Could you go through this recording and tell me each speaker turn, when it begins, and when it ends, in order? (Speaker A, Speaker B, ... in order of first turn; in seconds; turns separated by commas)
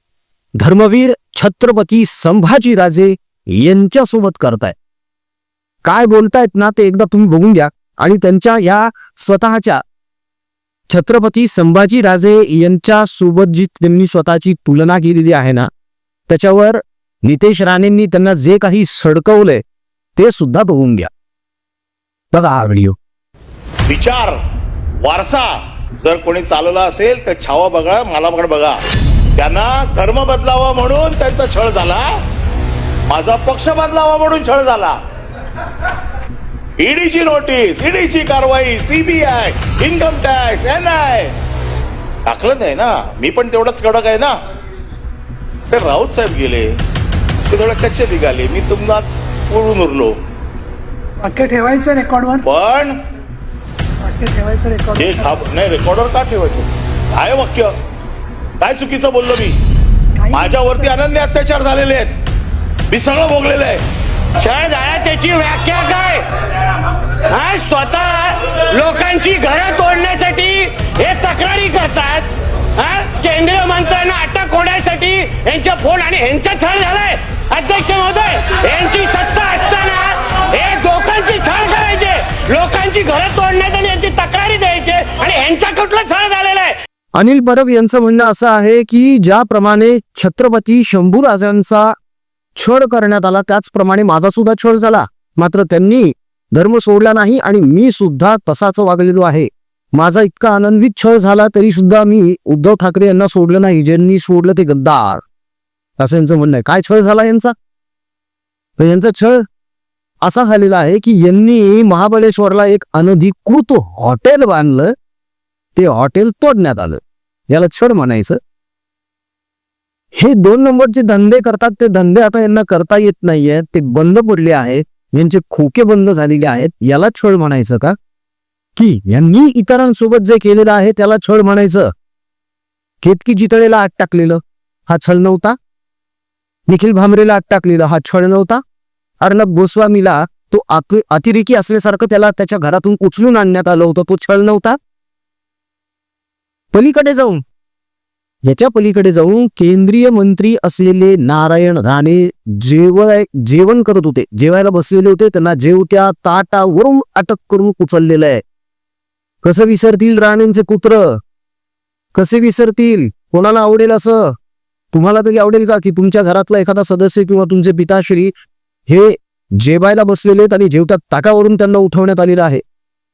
Speaker A: 0.6-4.8, Speaker A: 5.8-9.8, Speaker A: 10.9-15.7, Speaker A: 16.3-19.6, Speaker A: 20.1-21.1, Speaker A: 22.3-23.0, Speaker B: 23.9-24.4, Speaker B: 25.0-28.8, Speaker B: 29.4-32.2, Speaker B: 33.1-35.0, Speaker B: 36.8-41.3, Speaker B: 42.3-44.4, Speaker B: 45.7-46.7, Speaker B: 47.5-50.1, Speaker C: 51.2-52.4, Speaker B: 52.4-53.0, Speaker C: 54.1-54.9, Speaker B: 54.9-57.7, Speaker B: 58.6-59.6, Speaker B: 60.3-62.1, Speaker B: 62.9-63.8, Speaker D: 64.4-66.5, Speaker D: 67.1-86.8, Speaker A: 87.2-92.0, Speaker A: 92.5-105.2, Speaker A: 106.0-107.5, Speaker A: 108.8-109.5, Speaker A: 110.2-114.9, Speaker A: 115.7-118.4, Speaker A: 120.1-128.0, Speaker A: 128.8-131.9, Speaker A: 133.0-135.6, Speaker A: 136.7-138.6, Speaker A: 139.2-144.8, Speaker A: 146.7-147.4, Speaker A: 148.4-158.4, Speaker A: 159.4-161.2, Speaker A: 162.1-164.3, Speaker A: 164.9-168.3, Speaker A: 168.9-172.6